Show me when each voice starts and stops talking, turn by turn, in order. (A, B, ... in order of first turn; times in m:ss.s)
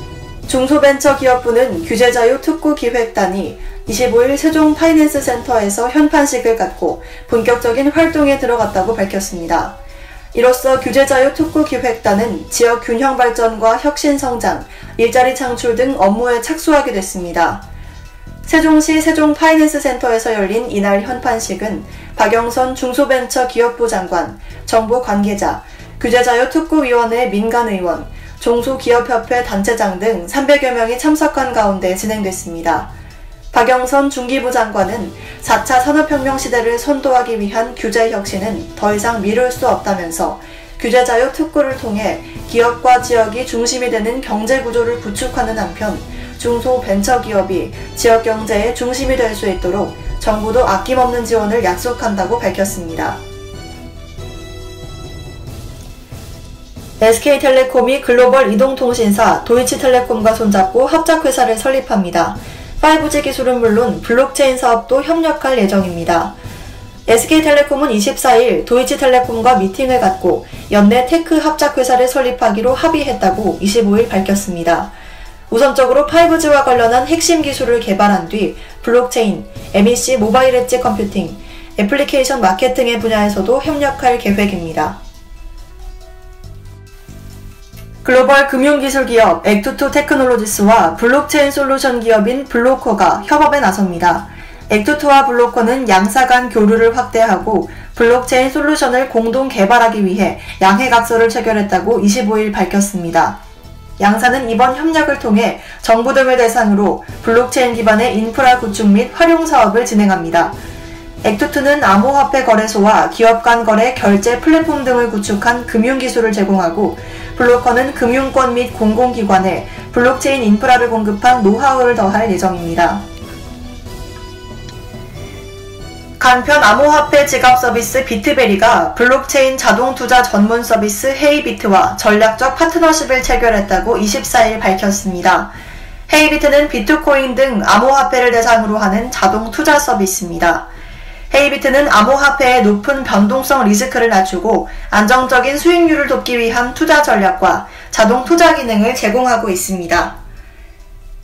0:00.5-0:09.8 A
0:10.3-0:17.6 A
0:18.4-0:32.9 A
0:33.5-0:53.2 A
0:57.0-1:06.4 A
1:07.1-1:14.9 A
1:15.5-1:25.0 A
1:28.0-1:43.4 A
1:44.0-1:50.6 A
1:51.2-2:03.0 A
2:06.2-2:15.5 A
2:16.1-2:20.7 A
2:21.3-2:30.2 A